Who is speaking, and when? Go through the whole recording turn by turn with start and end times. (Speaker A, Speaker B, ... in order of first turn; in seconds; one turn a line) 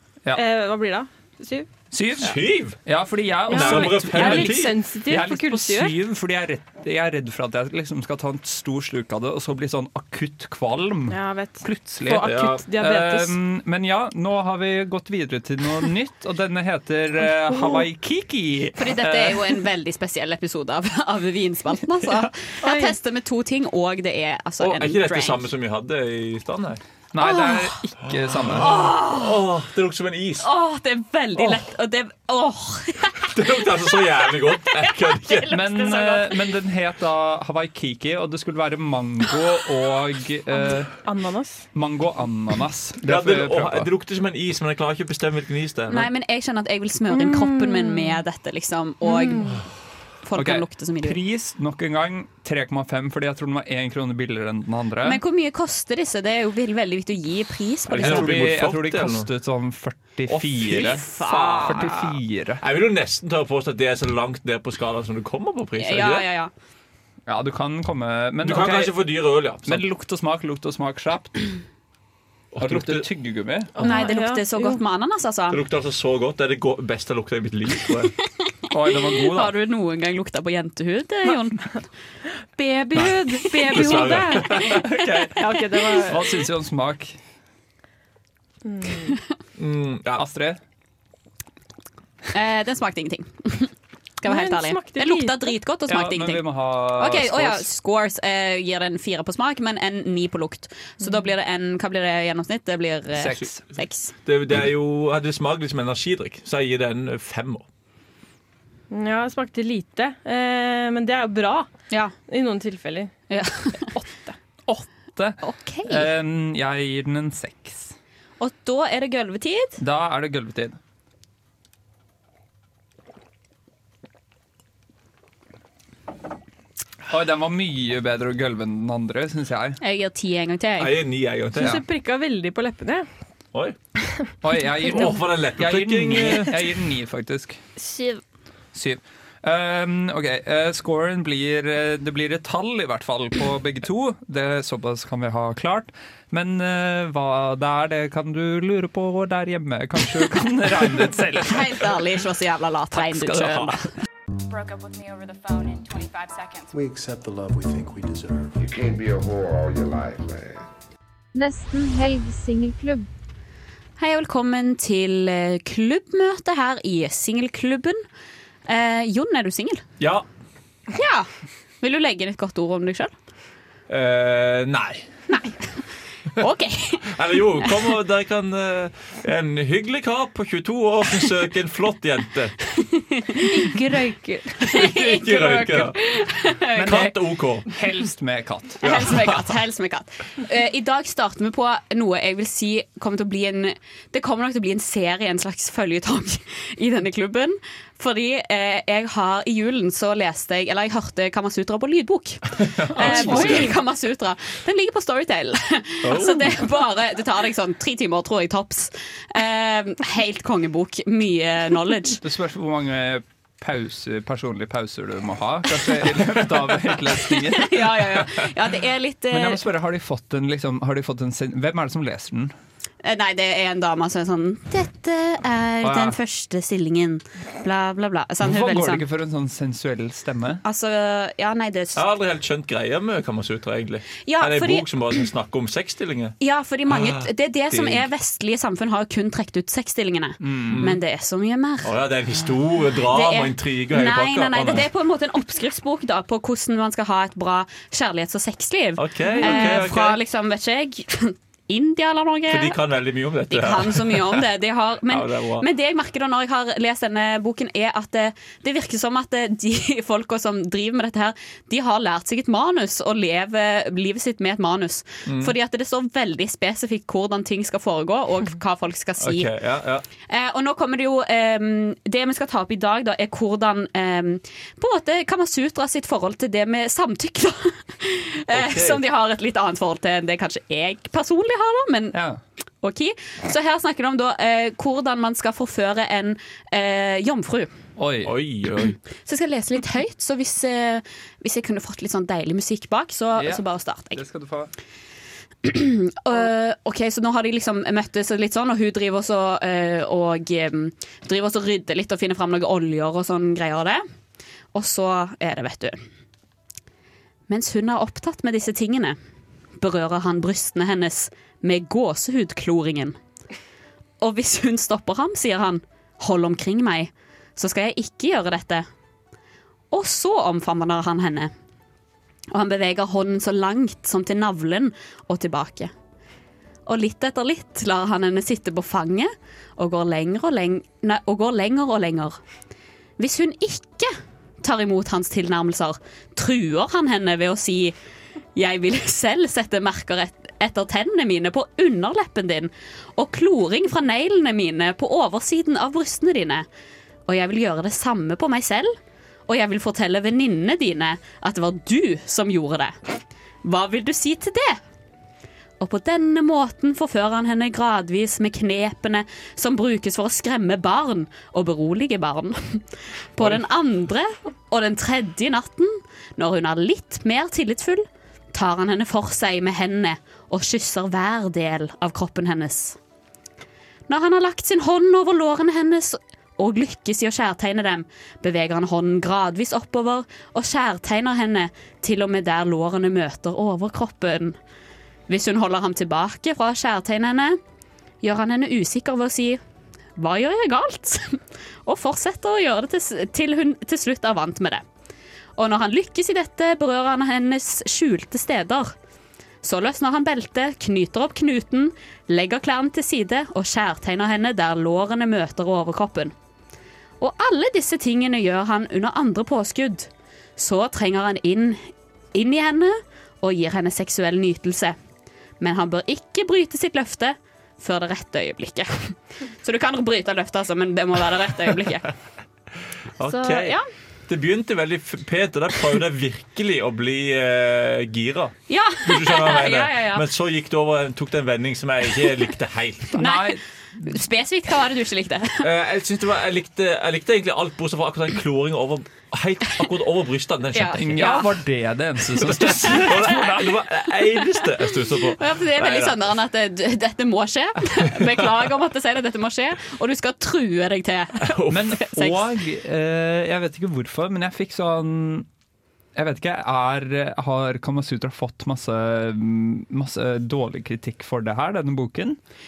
Speaker A: 0.3-1.7
Speaker B: 1.9-19.6
Speaker C: 2.2-2.8
Speaker C: 3.5-4.8
Speaker A: 3.5-6.0
Speaker A: 11.1-13.3
Speaker C: 12.2-12.6
Speaker A: 17.5-17.8
Speaker D: 18.8-25.4
Speaker A: 22.6-22.9
Speaker C: 24.6-26.8
Speaker B: 27.1-28.9
Speaker D: 27.2-27.7
Speaker C: 28.2-30.5
Speaker D: 28.6-29.4
Speaker D: 30.4-36.4
Speaker C: 33.3-35.5
Speaker B: 35.5-40.9
Speaker A: 41.0-41.6
Speaker B: 41.7-43.9
Speaker C: 43.0-46.1
Speaker D: 45.9-49.5
Speaker A: 47.1-48.2
Speaker A: 49.0-49.6
Speaker D: 50.2-51.2
Speaker B: 50.4-55.2
Speaker D: 55.0-58.3
Speaker C: 57.9-59.3
Speaker B: 58.0-62.6
Speaker C: 60.3-61.0
Speaker D: 60.7-61.9
Speaker C: 62.6-66.2
Speaker D: 65.8-66.5
Speaker B: 67.3-68.9
Speaker C: 68.4-69.8
Speaker B: 69.6-71.5
Speaker C: 72.5-73.0
Speaker B: 72.6-73.8
Speaker A: 73.8-74.8
Speaker D: 73.8-75.6
Speaker C: 75.5-78.1
Speaker B: 78.7-79.5
Speaker D: 79.2-81.7
Speaker A: 82.5-86.4
Speaker C: 83.7-85.4
Speaker B: 86.0-87.2
Speaker A: 88.6-89.2
Speaker C: 89.6-90.2
Speaker B: 90.2-90.6
Speaker D: 92.3-104.1
Speaker A: 94.2-95.5
Speaker B: 95.9-97.7
Speaker A: 101.0-101.3
Speaker B: 103.1-103.6
Speaker C: 104.2-107.6
Speaker A: 108.9-111.7
Speaker A: 112.3-113.1
Speaker D: 113.3-113.7
Speaker A: 113.8-114.8
Speaker B: 115.2-118.0
Speaker D: 115.4-116.1
Speaker D: 118.4-119.8
Speaker B: 119.8-120.8
Speaker B: 127.1-129.8
Speaker D: 129.8-130.9
Speaker C: 130.8-131.8
Speaker A: 131.5-133.1
Speaker B: 134.4-137.6
Speaker C: 134.8-136.5
Speaker A: 137.8-138.2
Speaker B: 138.7-151.9
Speaker D: 151.4-153.9
Speaker B: 152.9-153.8
Speaker E: 154.5-156.7
Speaker F: 156.7-160.7
Speaker D: 164.0-168.0
Speaker D: 168.7-169.8
Speaker C: 170.0-170.2
Speaker D: 170.9-171.3
Speaker D: 171.8-173.1
Speaker C: 173.9-175.1
Speaker D: 176.4-177.1
Speaker C: 177.1-182.6
Speaker D: 182.7-183.7
Speaker A: 183.6-184.6
Speaker D: 184.6-187.1
Speaker C: 184.7-186.0
Speaker C: 186.7-187.7
Speaker B: 186.8-187.1
Speaker B: 187.7-188.8
Speaker C: 188.8-189.4
Speaker D: 188.8-212.2
Speaker C: 202.6-203.7
Speaker B: 203.0-203.7
Speaker C: 206.0-206.6
Speaker B: 212.2-218.3
Speaker D: 217.5-219.6
Speaker B: 219.3-222.5
Speaker D: 223.0-229.0
Speaker B: 225.8-226.2
Speaker B: 228.4-230.6
Speaker D: 230.6-232.0
Speaker C: 231.9-236.3
Speaker D: 234.2-234.8
Speaker D: 236.4-241.9
Speaker C: 236.9-238.0
Speaker B: 240.4-240.8
Speaker C: 240.7-241.0
Speaker C: 241.8-244.9
Speaker D: 243.1-252.8
Speaker C: 249.0-250.2
Speaker C: 252.5-254.4
Speaker D: 253.5-269.5
Speaker C: 255.1-255.6
Speaker C: 265.3-265.5
Speaker C: 269.2-270.0
Speaker D: 270.3-282.2
Speaker C: 278.5-279.0
Speaker B: 282.1-282.4
Speaker D: 282.8-287.7
Speaker B: 288.0-288.3
Speaker C: 288.2-289.0
Speaker D: 289.2-294.2
Speaker B: 293.4-294.7
Speaker D: 295.6-304.0
Speaker D: 304.7-306.0
Speaker D: 307.5-309.2
Speaker D: 309.8-313.1
Speaker D: 314.2-318.9
Speaker D: 319.9-321.5
Speaker D: 322.5-325.9
Speaker D: 326.9-332.4
Speaker D: 333.2-337.9
Speaker D: 338.6-346.6
Speaker D: 347.2-348.9
Speaker D: 349.5-353.0
Speaker D: 353.6-354.8
Speaker D: 355.8-362.8
Speaker D: 363.4-373.0
Speaker D: 374.1-384.6
Speaker D: 385.3-387.6
Speaker D: 388.2-389.6
Speaker D: 390.2-394.8
Speaker D: 395.6-398.9
Speaker D: 399.6-406.3
Speaker D: 407.2-411.8
Speaker D: 412.3-414.9
Speaker D: 415.6-422.1
Speaker C: 423.2-423.8
Speaker D: 423.2-423.8
Speaker C: 424.3-433.1
Speaker D: 428.7-430.2
Speaker B: 433.1-434.0
Speaker D: 433.1-433.5
Speaker D: 434.1-435.6
Speaker C: 435.6-441.3
Speaker D: 440.7-441.5
Speaker B: 441.0-443.7
Speaker C: 442.4-446.3
Speaker D: 445.3-452.4
Speaker C: 451.4-451.8
Speaker B: 451.7-455.5
Speaker B: 456.1-462.4